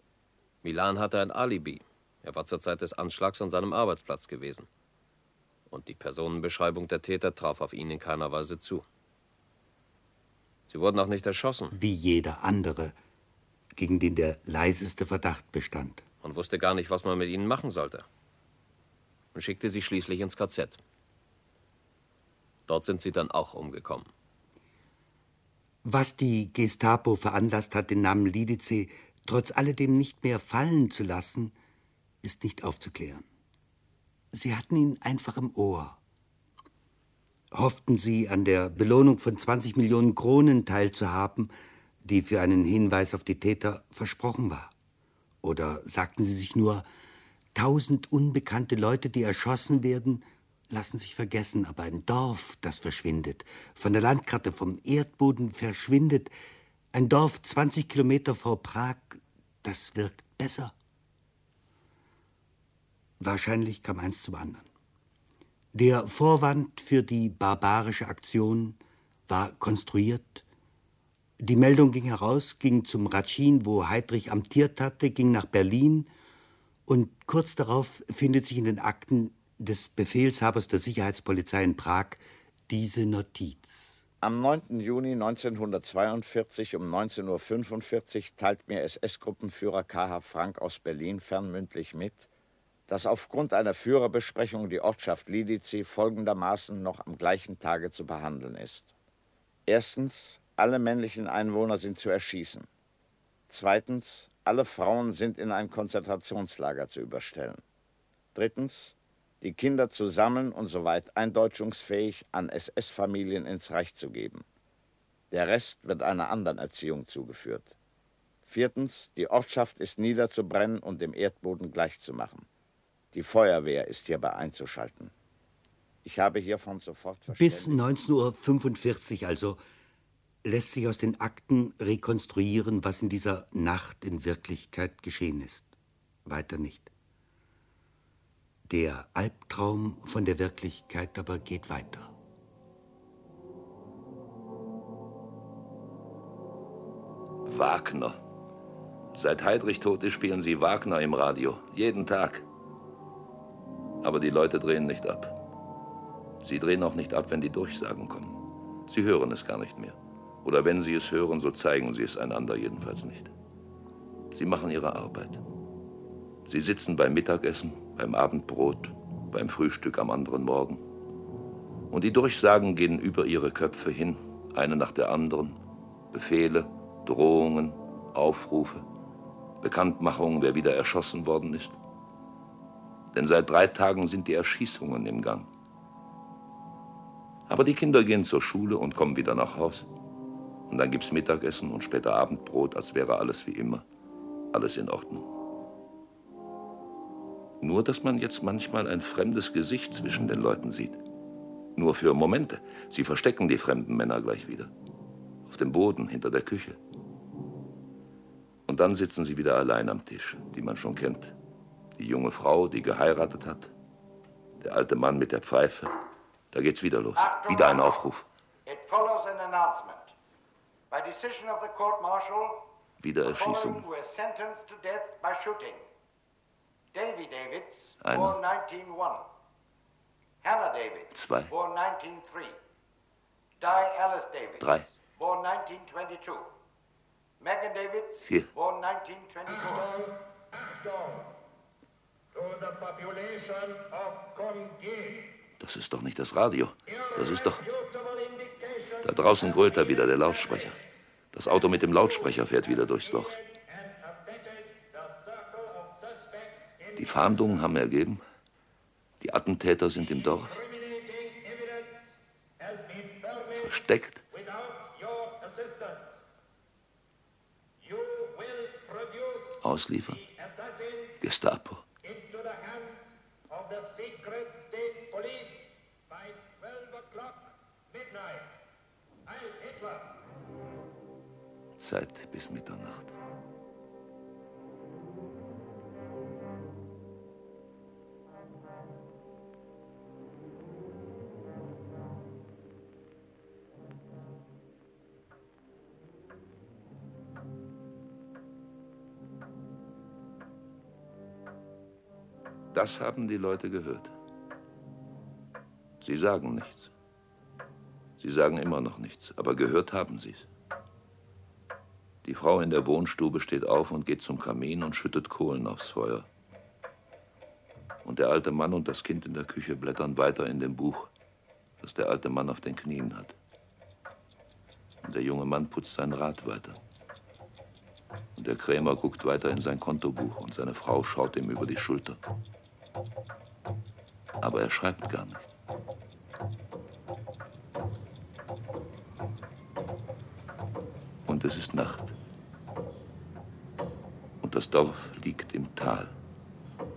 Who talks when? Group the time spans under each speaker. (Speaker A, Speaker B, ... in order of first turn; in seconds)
Speaker A: 0.6-4.7, 5.7-8.9, 10.7-11.8, 16.2-18.1, 19.3-20.8, 22.7-24.1
Speaker B: 11.7-12.9, 13.8-16.0, 25.8-31.5, 32.2-33.3, 34.3-36.0, 37.5-41.5, 42.0-44.7, 45.4-46.9, 47.5-56.3, 56.9-60.7, 63.2-64.7, 65.7-70.5, 71.4-76.1, 76.9-84.0, 127.3-129.6, 130.4-135.7, 136.3-136.9, 138.7-142.1
Speaker C: 84.2-92.3, 92.9-98.9, 99.7-102.7, 103.5-107.6, 108.3-114.5, 115.3-117.8, 118.5-122.5, 123.1-125.1, 126.0-127.8
Speaker D: 147.4-148.2, 149.1-152.4, 154.0-155.4, 156.4-163.3, 164.3-165.4, 166.5-170.8, 171.9-175.6, 176.1-178.9, 179.6-181.8, 183.1-185.5, 187.5-189.9, 190.7-193.9, 194.5-195.3, 197.6-201.0, 201.8-204.7, 205.5-206.8, 208.7-211.4, 212.0-213.7, 214.6-216.0, 216.5-218.3, 223.0-223.9, 228.0-228.4, 231.1-231.5, 234.6-234.9, 238.2-238.5, 245.6-247.6, 249.0-250.8, 251.3-253.4, 257.0-258.2, 259.2-260.6, 263.6-264.2, 269.6-270.2, 271.2-271.8, 281.8-283.1, 302.7-304.1, 306.0-306.9, 308.2-310.5, 312.2-316.3, 318.1-321.1, 321.8-323.4, 325.0-326.8, 328.4-332.2, 334.4-335.5, 341.3-342.1, 344.4-346.1
Speaker E: 217.1-218.0, 218.7-220.1, 220.9-222.7, 223.2-225.8, 226.9-229.2, 230.4-232.6, 233.6-236.5, 237.4-240.0
Speaker F: 239.5-241.3, 242.3-245.4, 246.9-250.8, 251.5-257.6, 260.0-266.2, 267.8-271.2, 272.0-278.5, 279.3-280.2